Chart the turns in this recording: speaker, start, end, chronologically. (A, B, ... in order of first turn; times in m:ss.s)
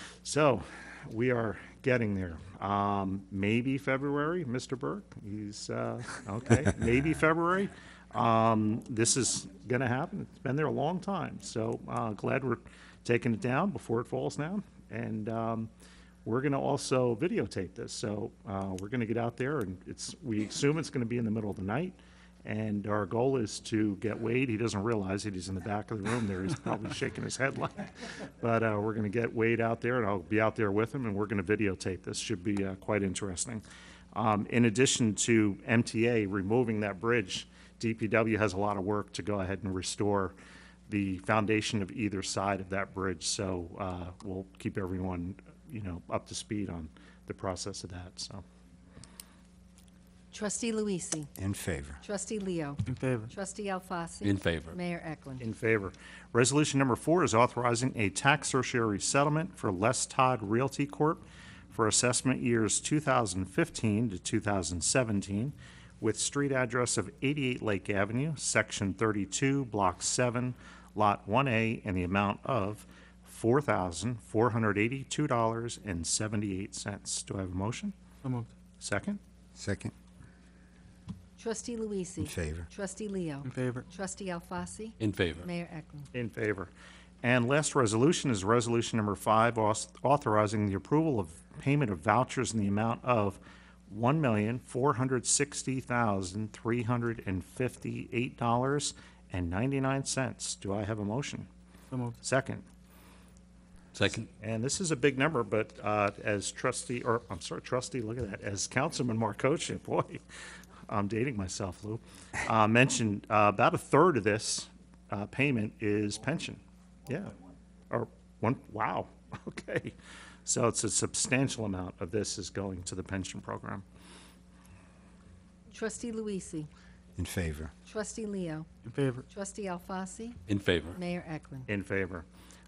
0:00.2-0:15.7 A
0:16.2-0:40.3 A
0:40.9-0:48.4 A
0:50.3-0:51.3 B
0:51.4-0:52.0 C
0:52.0-0:55.4 B
0:52.8-0:53.3 D
0:54.2-0:54.8 E
0:55.4-1:17.9 A
1:18.2-1:18.5 D
1:18.8-1:19.2 A
1:19.5-1:19.9 C
1:21.4-1:26.1 B
1:22.2-1:22.7 C
1:23.4-1:23.8 D
1:25.0-1:25.5 E
1:26.1-1:26.7 A
1:27.2-1:41.5 A
1:41.9-1:42.2 D
1:42.2-1:42.6 A
1:43.9-1:44.3 E
1:44.3-1:50.2 A
1:50.9-1:57.4 A
1:57.9-1:59.9 A
2:00.4-2:03.8 A
2:05.7-2:06.7 B
2:07.2-2:07.7 C
2:07.8-2:08.7 B
2:08.8-2:09.2 D
2:09.3-2:10.4 B
2:10.5-2:11.0 E
2:10.9-2:11.7 B
2:11.7-2:12.2 A